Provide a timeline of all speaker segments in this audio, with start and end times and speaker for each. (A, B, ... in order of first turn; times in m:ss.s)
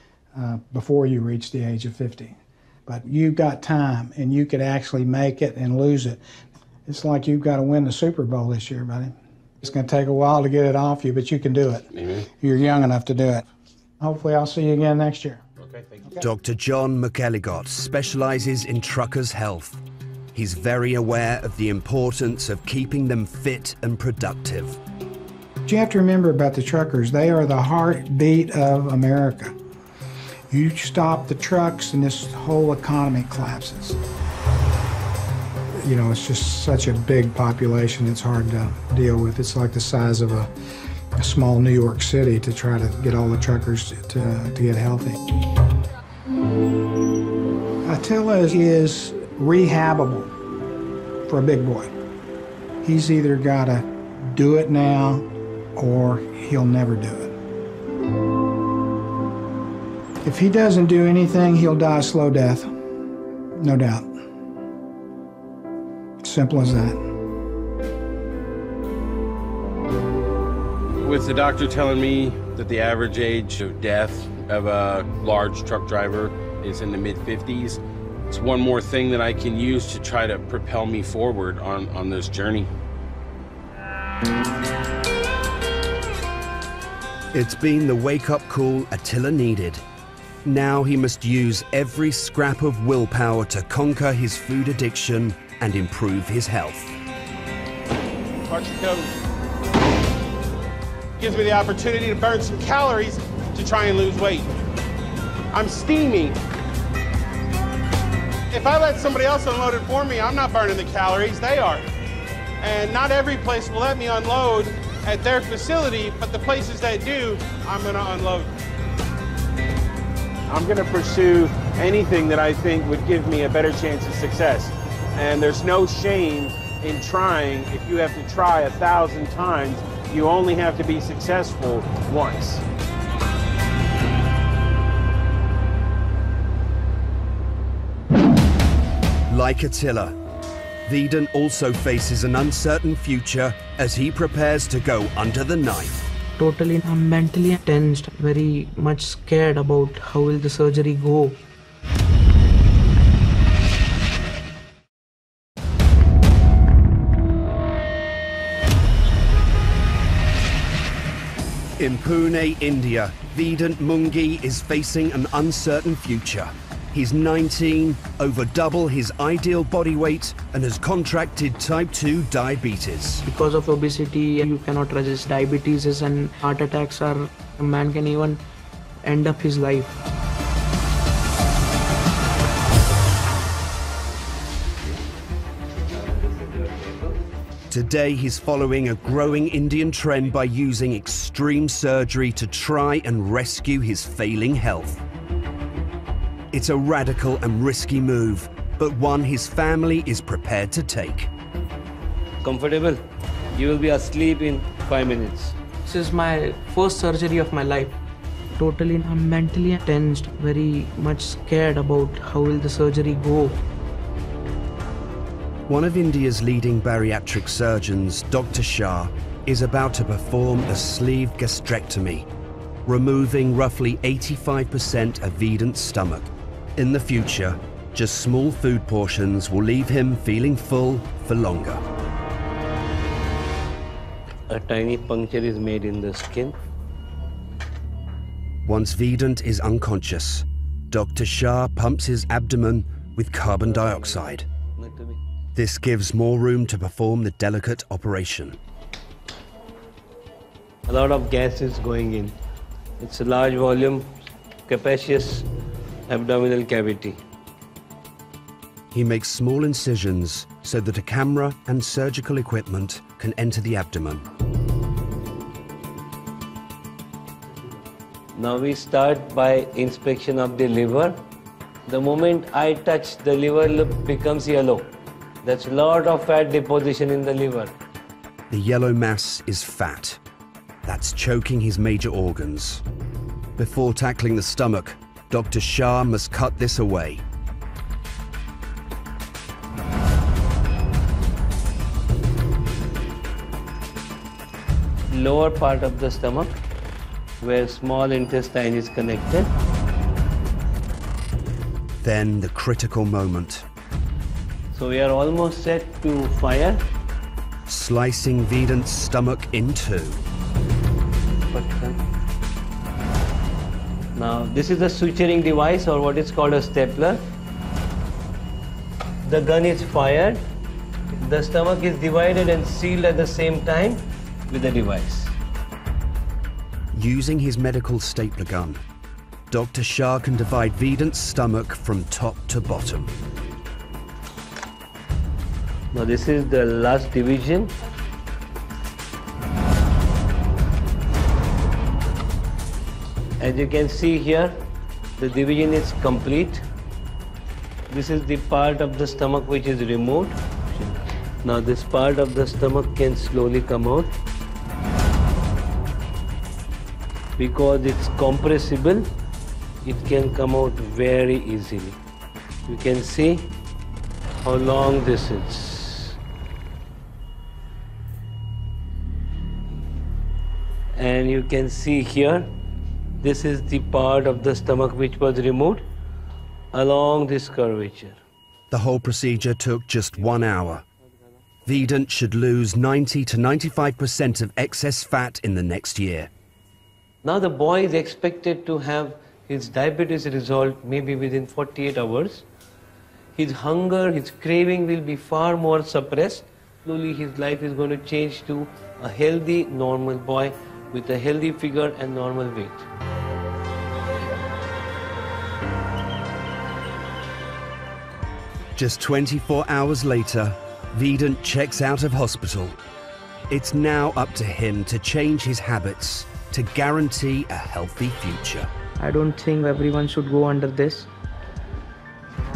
0:00.3-0:02.3 A
0:02.9-0:06.2 A
0:06.8-0:11.9 A
0:11.9-0:12.3 B
0:12.4-0:13.4 A
0:14.0-0:15.4 A
0:15.6-0:15.9 B
0:16.2-0:19.8 C
0:20.3-0:24.8 C
0:25.6-0:29.5 A
0:30.5-0:34.0 A
0:35.8-0:40.5 A
0:41.2-0:45.2 A
0:47.8-0:50.3 A
0:51.3-0:51.9 A
0:52.8-0:57.3 A
1:00.2-1:02.7 A
1:03.6-1:04.1 A
1:06.2-1:07.0 A
1:11.0-1:22.7 B
1:27.3-1:29.8 C
1:30.4-1:37.0 C
1:38.5-1:39.1 B
1:41.2-1:44.5 B
1:45.5-1:46.4 B
1:48.5-1:51.9 B
1:52.6-1:58.5 B
2:00.5-2:12.6 B
2:19.3-2:20.2 C
2:20.8-2:26.1 C
2:26.4-2:31.4 D
2:41.8-2:53.2 C
2:53.2-2:58.4 D
2:59.0-2:59.9 D
3:05.9-3:07.2 E
3:07.7-3:15.0 C
3:16.5-3:21.3 C
3:22.4-3:23.0 E
3:23.5-3:25.6 E
3:25.8-3:28.0 D
3:28.6-3:33.6 D
3:35.7-3:42.3 C
3:42.8-3:51.8 C
3:54.5-3:56.5 E
3:58.6-4:04.5 C
4:03.7-4:04.2 E
4:04.8-4:05.2 E
4:05.5-4:08.6 C
4:10.8-4:12.3 E
4:13.0-4:14.1 E
4:14.7-4:15.5 E
4:16.1-4:17.2 E
4:18.9-4:24.2 C
4:28.3-4:31.2 E
4:31.9-4:34.9 E
4:35.4-4:37.7 E
4:38.5-4:40.2 C
4:40.8-4:42.8 C
4:43.6-4:47.2 C
4:55.1-4:56.6 E
4:57.4-4:59.5 E
5:02.0-5:03.6 C
5:04.7-5:06.8 E
5:07.7-5:10.2 C
5:11.5-5:12.0 E
5:14.1-5:17.2 E
5:19.2-5:20.4 E
5:21.1-5:25.3 E
5:26.9-5:28.8 C
5:29.5-5:33.1 C
5:35.9-5:37.7 E
5:43.4-5:44.6 E
5:45.2-5:46.6 E
5:47.9-5:54.1 E
5:57.4-5:59.1 E
5:59.8-6:02.0 E
6:02.7-6:03.5 E
6:04.4-6:06.2 E
6:11.0-6:12.5 E
6:13.2-6:15.8 E
6:16.7-6:18.2 E
6:18.7-6:20.8 C
6:21.6-6:26.3 C
6:27.2-6:32.4 E
6:33.4-6:42.9 E
6:48.8-6:52.8 C
6:53.5-6:58.7 C
6:59.0-7:01.1 D